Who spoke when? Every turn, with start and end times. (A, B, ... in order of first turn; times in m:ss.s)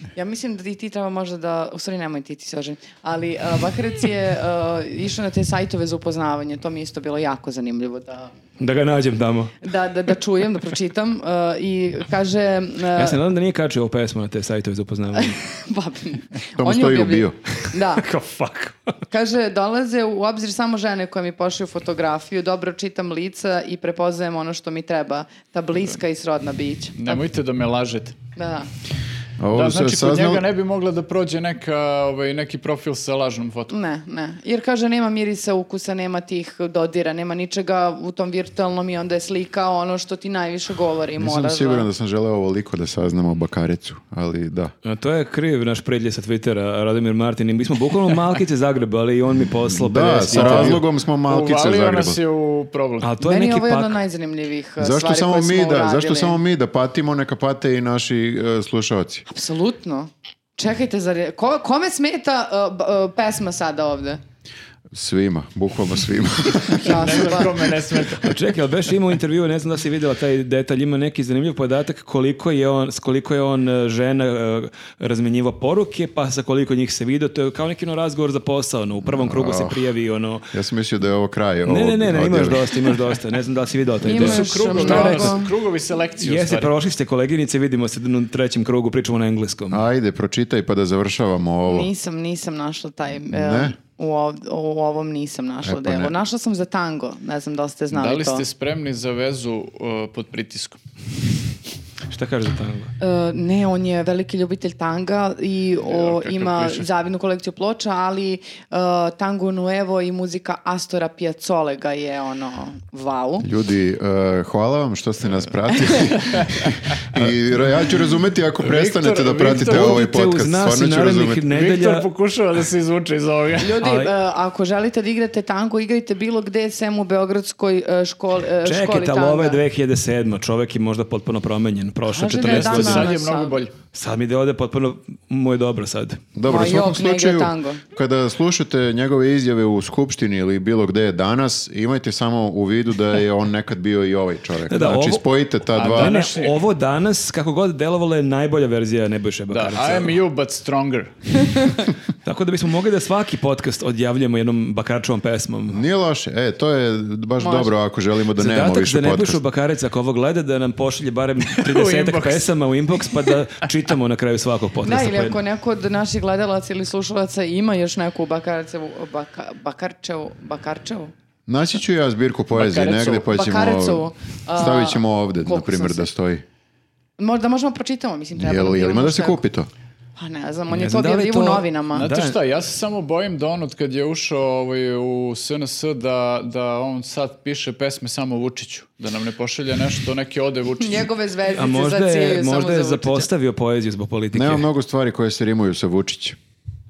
0:00.2-0:08.3 A
0:08.6-0:09.6 B
0:09.6-0:13.2 A
0:13.0-0:15.4 B
0:15.2-0:18.1 A
0:16.6-0:17.4 C
0:17.6-0:19.0 B
0:19.1-0:27.2 A
0:27.0-0:28.2 D
0:28.4-0:28.7 A
0:29.4-0:30.5 C
0:29.5-0:33.7 D
0:33.7-0:41.9 A
0:41.2-0:44.7 C
0:44.8-0:50.8 B
0:49.7-0:52.2 C
0:50.3-0:53.1 D
0:53.0-0:54.0 B
0:53.2-0:56.4 A
0:54.8-0:59.2 C
0:59.3-1:04.2 A
1:04.9-1:07.2 C
1:06.7-1:07.6 A
1:06.7-1:08.4 D
1:08.2-1:20.5 B
1:19.1-1:19.8 C
1:20.5-1:23.0 C
1:21.7-1:25.5 B
1:24.0-1:25.5 A
1:24.1-1:26.7 D
1:26.2-1:29.8 B
1:29.7-1:31.9 C
1:31.7-1:38.4 A
1:33.3-1:33.8 C
1:35.6-1:36.1 C
1:37.9-1:40.8 D
1:42.1-1:42.9 B
1:43.0-1:53.5 A
1:45.9-1:46.9 D
1:53.4-2:01.4 C
1:55.8-1:56.2 A
1:56.4-1:57.2 D
1:58.6-2:00.0 D
1:59.5-2:02.1 B
2:01.5-2:03.8 D
2:03.6-2:09.6 A
2:03.8-2:04.1 B
2:08.6-2:13.1 B
2:12.1-2:13.6 A
2:12.4-2:13.7 D
2:13.9-2:16.2 B
2:16.4-2:26.2 C
2:16.5-2:17.8 A
2:24.7-2:30.2 B
2:25.7-2:26.6 D
2:29.5-2:31.4 D
2:32.2-2:35.8 B
2:35.7-2:39.4 C
2:37.4-2:37.7 A
2:38.4-2:45.4 B
2:41.6-2:42.5 D
2:43.1-2:43.4 D
2:44.8-2:51.1 A
2:51.5-2:56.4 C
2:52.6-2:53.3 D
2:53.3-2:56.1 A
2:57.2-2:59.4 A
2:58.4-2:59.7 C
3:00.2-3:02.1 A
3:00.7-3:02.4 B
3:01.9-3:11.1 D
3:10.8-3:13.3 A
3:11.5-3:14.7 B
3:14.3-3:16.4 C